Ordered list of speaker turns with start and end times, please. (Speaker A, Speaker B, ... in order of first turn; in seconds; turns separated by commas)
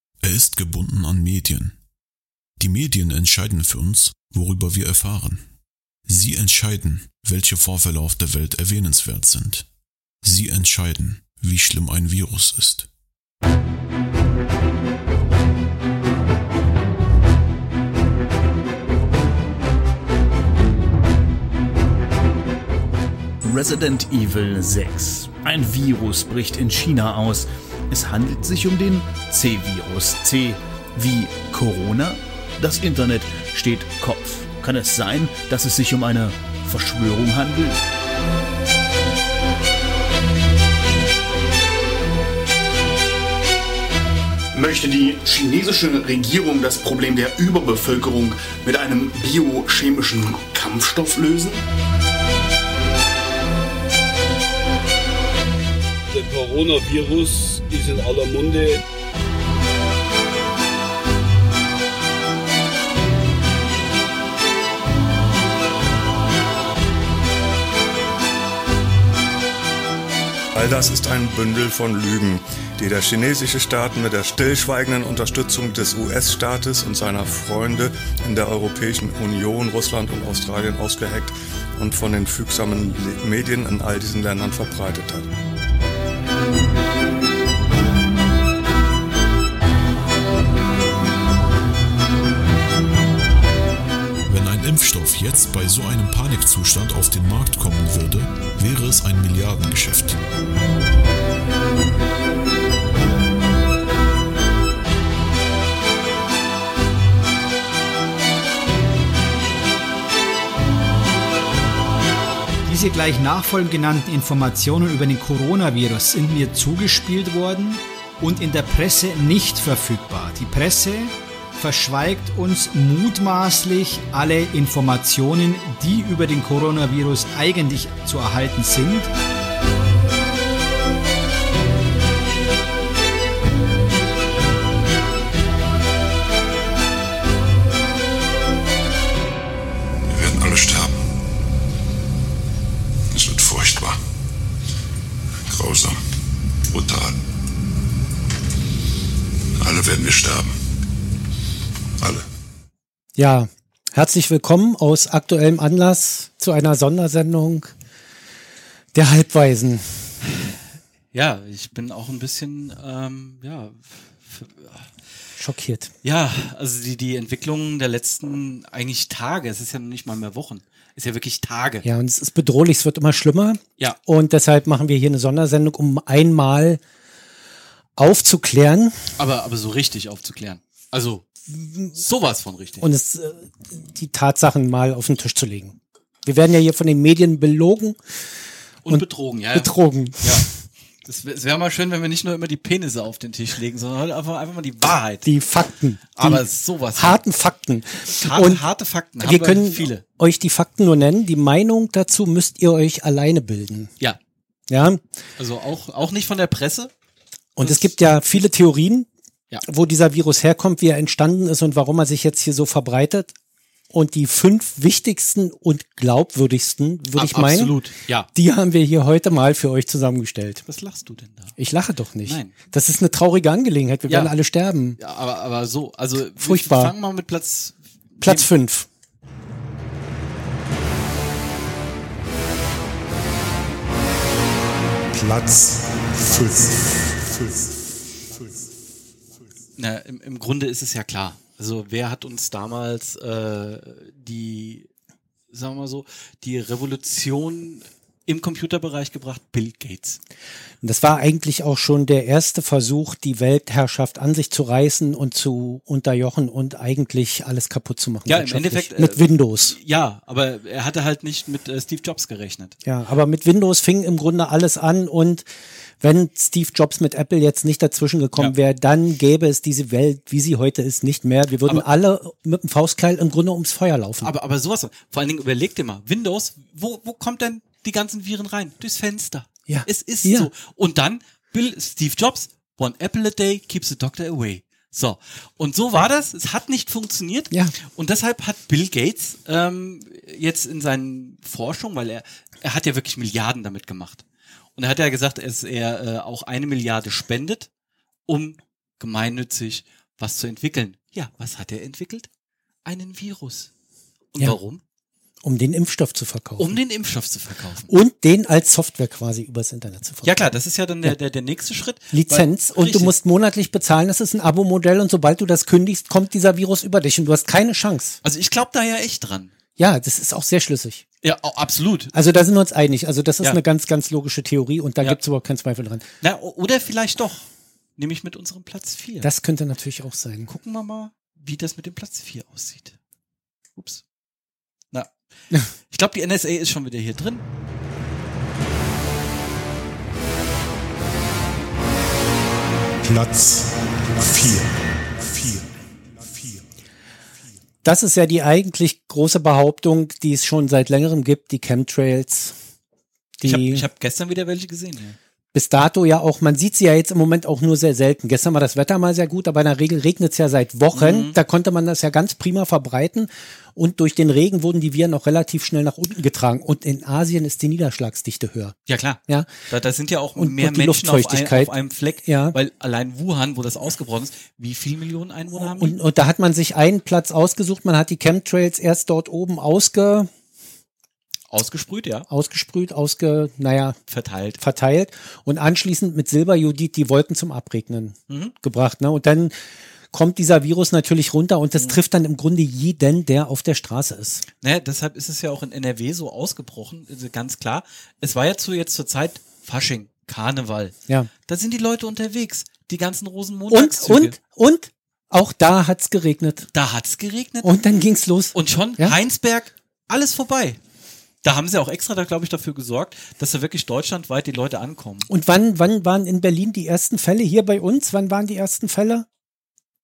Speaker A: 0.2-1.7, Speaker A: 2.6-5.4, Speaker A: 6.0-9.7, Speaker A: 10.2-12.9, Speaker B: 23.4-37.8, Speaker C: 44.5-51.6, Speaker D: 56.1-58.8, Speaker E: 70.5-85.3, Speaker A: 94.3-100.2, Speaker F: 112.6-129.1, Speaker G: 140.1-140.9, Speaker G: 143.1-144.0, Speaker G: 145.5-146.0, Speaker G: 146.7-147.2, Speaker G: 149.6-150.5, Speaker G: 152.0-152.2, Speaker H: 153.2-157.7, Speaker H: 158.9-160.1, Speaker I: 161.1-164.8, Speaker H: 165.4-165.9, Speaker I: 166.0-171.8, Speaker H: 171.8-176.8, Speaker H: 178.0-179.0, Speaker I: 179.2-181.3, Speaker H: 181.5-181.9, Speaker I: 181.9-182.8, Speaker H: 182.8-188.0, Speaker I: 188.8-190.5, Speaker H: 188.9-190.5, Speaker I: 191.0-195.3, Speaker H: 195.2-196.4, Speaker I: 196.1-197.2, Speaker H: 196.9-198.6, Speaker I: 198.1-200.0, Speaker H: 199.2-203.9, Speaker H: 204.7-205.0, Speaker I: 205.4-206.9, Speaker H: 207.6-209.1, Speaker I: 207.6-208.0, Speaker H: 209.6-213.3, Speaker H: 213.9-217.8, Speaker I: 217.1-218.3, Speaker H: 218.3-220.6, Speaker I: 220.7-221.5, Speaker H: 221.6-225.0, Speaker I: 222.2-222.6, Speaker I: 224.1-224.3, Speaker I: 225.0-228.5, Speaker H: 226.3-226.9, Speaker H: 228.2-228.9, Speaker A: 235.1-236.8, Speaker I: 239.8-244.9, Speaker I: 245.5-250.2, Speaker H: 250.8-259.8, Speaker I: 258.3-262.8, Speaker H: 262.8-265.5, Speaker H: 266.0-274.3, Speaker I: 274.2-294.2, Speaker H: 279.7-280.5, Speaker I: 294.8-297.7, Speaker I: 298.3-302.3, Speaker I: 302.8-303.7, Speaker I: 304.3-304.8, Speaker H: 305.4-306.8, Speaker I: 306.6-307.9, Speaker H: 307.9-310.4, Speaker I: 310.2-313.1, Speaker H: 312.1-318.2, Speaker I: 318.2-319.5, Speaker H: 319.8-321.0, Speaker I: 321.2-322.1, Speaker H: 322.1-326.1, Speaker I: 326.2-329.3, Speaker H: 329.2-330.5, Speaker I: 330.5-332.9, Speaker I: 333.8-334.0, Speaker I: 335.9-337.4, Speaker A: 343.0-345.7, Speaker H: 347.8-352.6, Speaker H: 353.4-353.9, Speaker I: 353.4-355.2, Speaker H: 355.5-368.8, Speaker I: 360.9-361.4, Speaker I: 368.9-375.9, Speaker H: 370.4-372.6, Speaker H: 375.5-380.3, Speaker I: 381.5-382.3, Speaker H: 382.3-384.0, Speaker I: 384.1-384.6, Speaker H: 384.6-389.5, Speaker I: 388.3-388.5, Speaker H: 390.1-394.4, Speaker I: 394.6-404.4, Speaker H: 403.7-406.7, Speaker I: 406.7-407.8, Speaker H: 407.6-409.2, Speaker I: 408.5-410.8, Speaker I: 411.4-415.3, Speaker H: 415.3-419.2